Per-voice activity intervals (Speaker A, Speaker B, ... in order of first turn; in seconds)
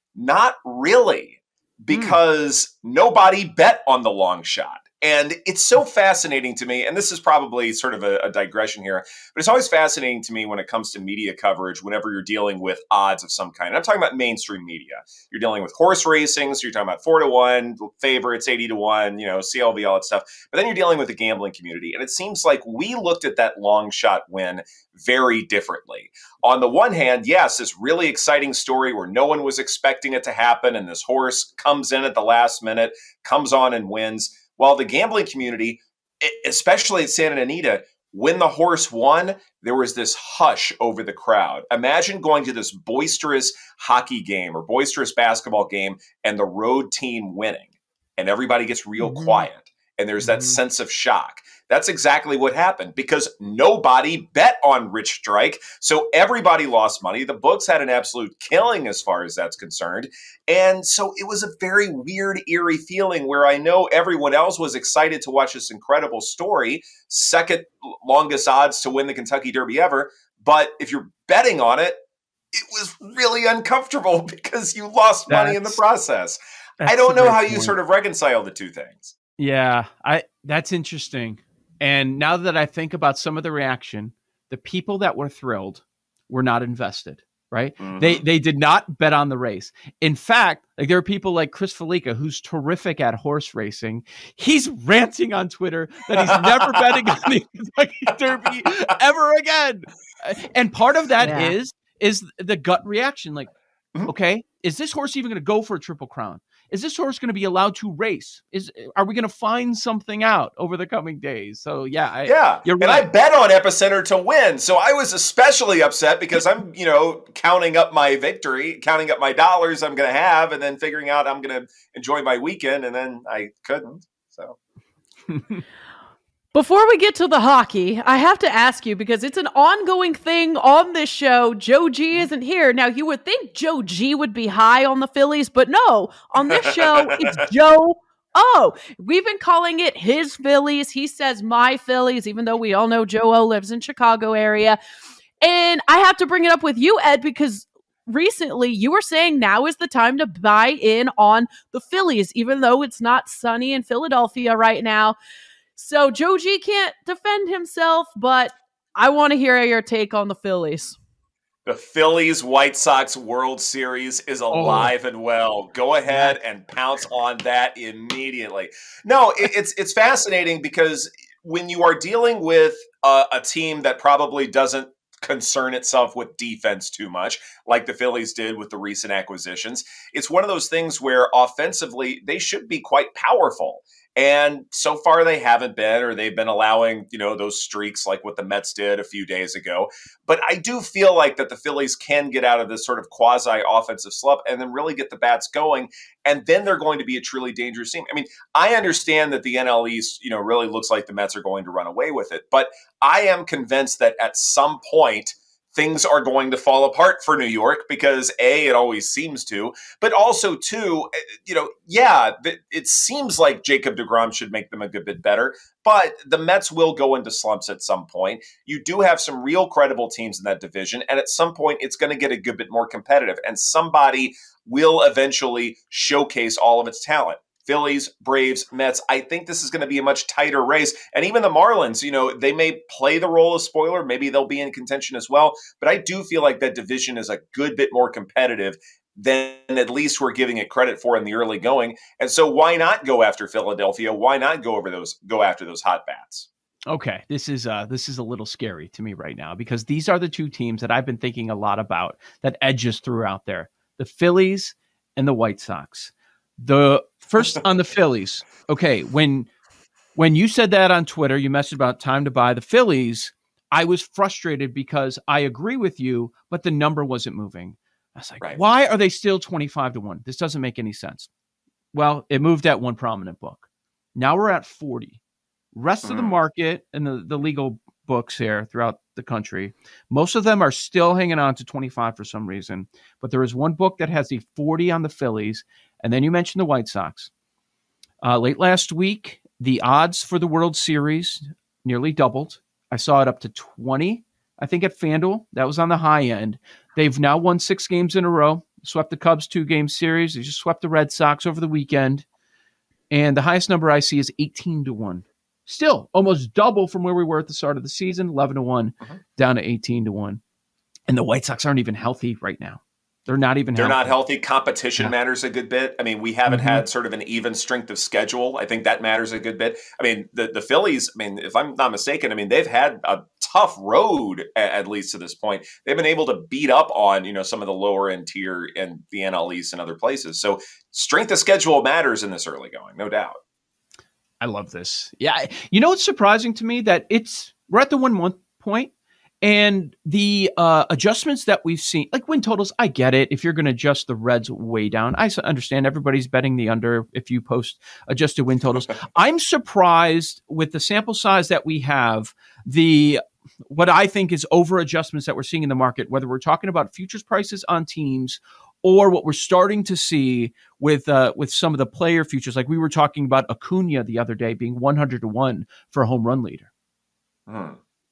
Speaker A: 0.1-72.0, 72.5-79.1, 87.8-88.2, 112.2-124.6, 136.5-137.4, 161.7-246.5, 276.0-276.4, 313.8-333.4, 367.5-367.8
Speaker B: 1.9-2.2, 49.0-49.5, 50.2-50.6, 75.3-75.8, 76.8-77.7, 79.4-103.5, 104.1-113.1, 164.5-164.9, 166.1-166.3, 246.9-259.5, 260.1-271.3, 271.9-273.6, 274.1-275.2, 275.7-287.3, 288.2-302.2, 303.1-310.4, 311.1-314.1, 316.5-316.8, 334.4-366.7
Speaker C: 101.2-101.5, 126.5-144.8, 145.4-155.2, 155.8-160.9